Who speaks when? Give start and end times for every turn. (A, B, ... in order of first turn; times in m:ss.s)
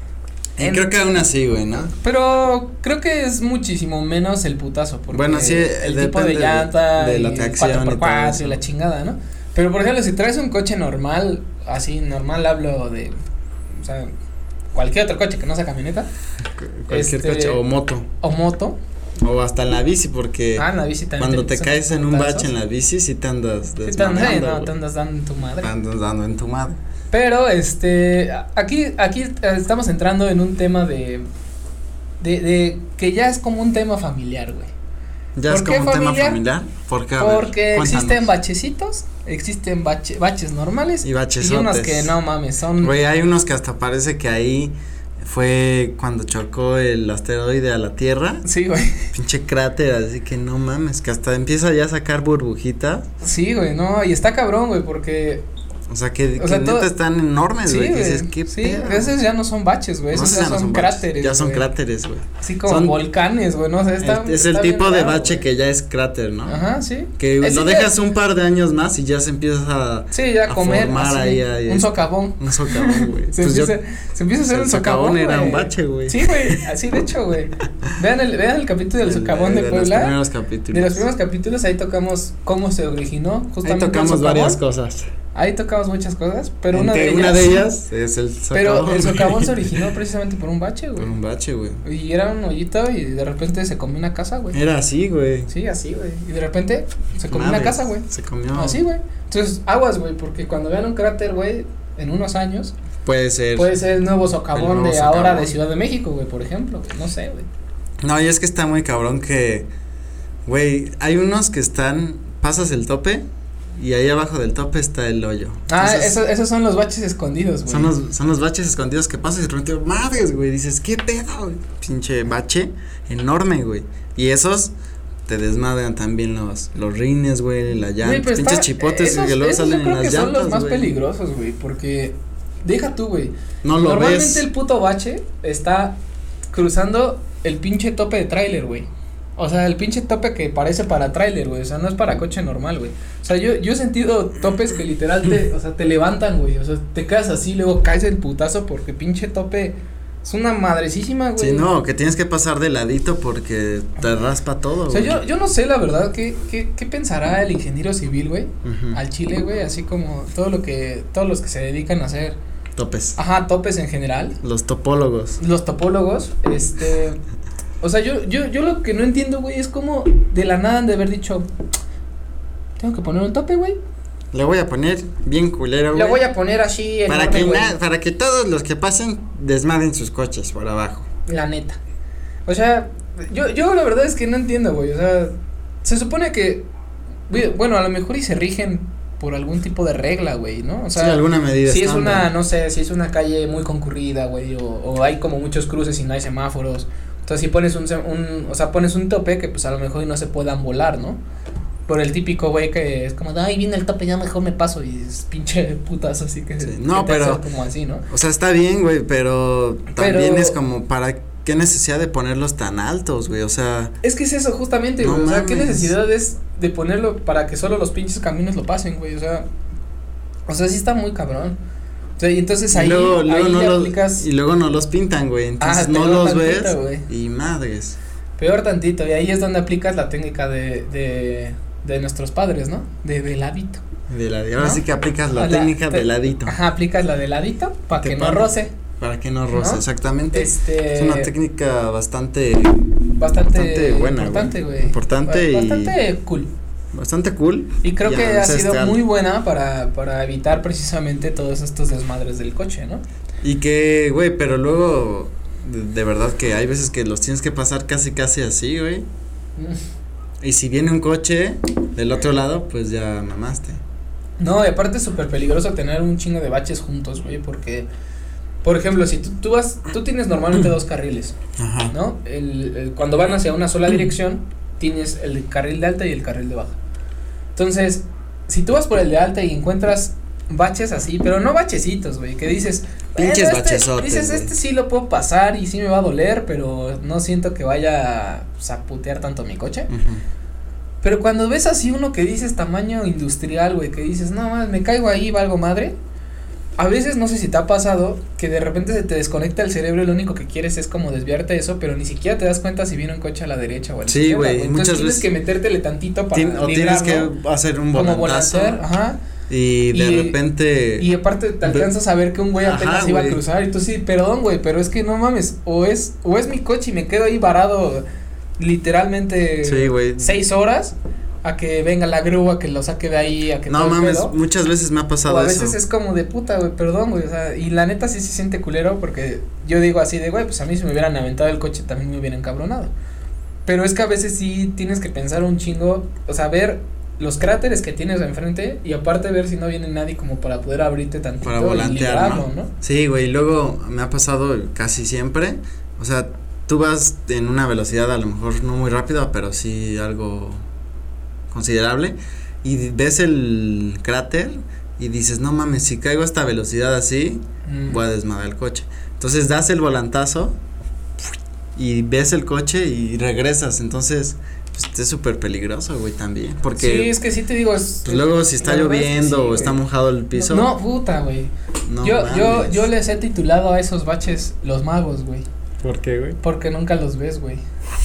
0:00.6-0:01.2 A
0:00.6-0:01.9 B
0:01.9-0:13.2 A
0:05.1-0:08.6 B
0:13.8-0:14.1 A
0:14.8-0:16.1 A
0:16.6-0:18.1 B
0:16.9-0:17.6 A
0:18.2-0:18.8 A
0:19.2-0:20.7 B
0:20.6-0:22.5 A
0:21.2-0:24.7 B
0:23.8-0:25.7 A
0:25.6-0:26.8 B
0:27.1-0:31.3 A
0:32.2-0:34.7 A
0:35.4-0:38.2 B
0:35.5-0:36.4 A
0:37.2-0:42.9 A
0:41.0-0:42.1 B
0:42.8-0:48.4 B
0:48.4-0:49.1 A
0:49.1-0:53.1 B
0:53.2-0:55.5 A
0:55.9-0:59.1 B
0:56.4-0:56.9 A
0:57.6-1:01.7 A
1:00.1-1:03.0 B
1:02.4-1:05.4 A
1:04.0-1:06.6 B
1:06.5-1:07.9 A
1:07.2-1:13.8 B
1:10.1-1:20.1 A
1:14.5-1:16.6 B
1:19.0-1:21.1 B
1:20.7-1:24.6 A
1:23.6-1:25.1 B
1:25.4-1:27.7 A
1:26.7-1:29.9 B
1:28.5-1:31.1 A
1:31.0-1:31.8 B
1:31.8-1:34.6 A
1:34.5-1:35.5 B
1:35.5-1:42.7 A
1:37.3-1:38.8 B
1:43.0-1:43.7 B
1:43.6-1:47.5 A
1:44.5-1:45.5 B
1:48.0-1:49.7 B
1:50.5-1:53.2 B
1:53.8-1:56.2 B
1:55.7-1:58.0 A
1:57.7-2:04.7 B
2:05.3-2:10.9 B
2:08.0-2:16.0 A
2:13.6-2:14.5 B
2:16.5-2:31.7 A
2:31.4-2:35.2 B
2:34.9-2:42.4 A
2:38.6-2:39.0 B
2:42.8-2:43.2 B
2:43.2-2:44.4 A
2:44.4-2:45.4 B
2:45.4-2:47.2 A
2:47.8-2:51.5 A
2:52.8-2:53.8 A
2:54.3-2:56.2 B
2:55.9-2:57.8 A
2:57.1-3:01.1 B
3:01.3-3:01.8 A
3:02.5-3:06.7 A
3:07.3-3:21.2 A
3:11.0-3:12.3 B
3:21.9-3:28.1 A
3:26.6-3:27.4 B
3:28.1-3:34.0 B
3:29.9-3:30.6 A
3:34.0-3:39.5 A
3:35.0-3:36.0 B
3:40.5-3:41.6 A
3:42.2-3:44.3 A
3:42.7-3:48.0 B
3:45.6-3:47.1 A
3:48.4-3:53.8 A
3:54.1-3:56.6 B
3:54.6-3:54.8 A
3:55.4-3:58.7 A
3:57.9-4:02.9 B
3:59.5-4:01.3 A
4:03.1-4:06.5 A
4:03.5-4:06.0 B
4:06.9-4:09.0 B
4:07.8-4:13.0 A
4:13.4-4:19.1 B
4:20.4-4:23.8 B
4:24.4-4:27.9 A
4:28.6-4:31.4 A
4:31.6-4:31.9 B
4:31.9-4:36.8 A
4:37.6-4:49.9 A
4:43.2-4:44.5 B
4:49.9-4:50.2 B
4:51.0-4:56.0 A
4:56.8-5:07.3 A
5:04.1-5:05.3 B
5:06.3-5:08.8 B
5:07.9-5:09.2 A
5:09.5-5:11.1 B
5:09.9-5:10.4 A
5:11.0-5:18.0 A
5:11.6-5:11.9 B
5:12.6-5:13.4 B
5:18.6-5:24.3 A
5:19.6-5:20.4 B
5:23.7-5:25.8 B
5:25.2-5:32.9 A
5:33.7-5:42.7 A
5:41.4-5:50.6 B
5:51.5-6:00.6 B
5:57.7-5:58.0 A
6:01.8-6:07.1 B
6:06.8-6:09.8 A
6:08.0-6:10.7 B
6:10.3-6:15.5 A
6:11.9-6:12.9 B
6:15.8-6:16.4 B
6:16.4-6:17.6 A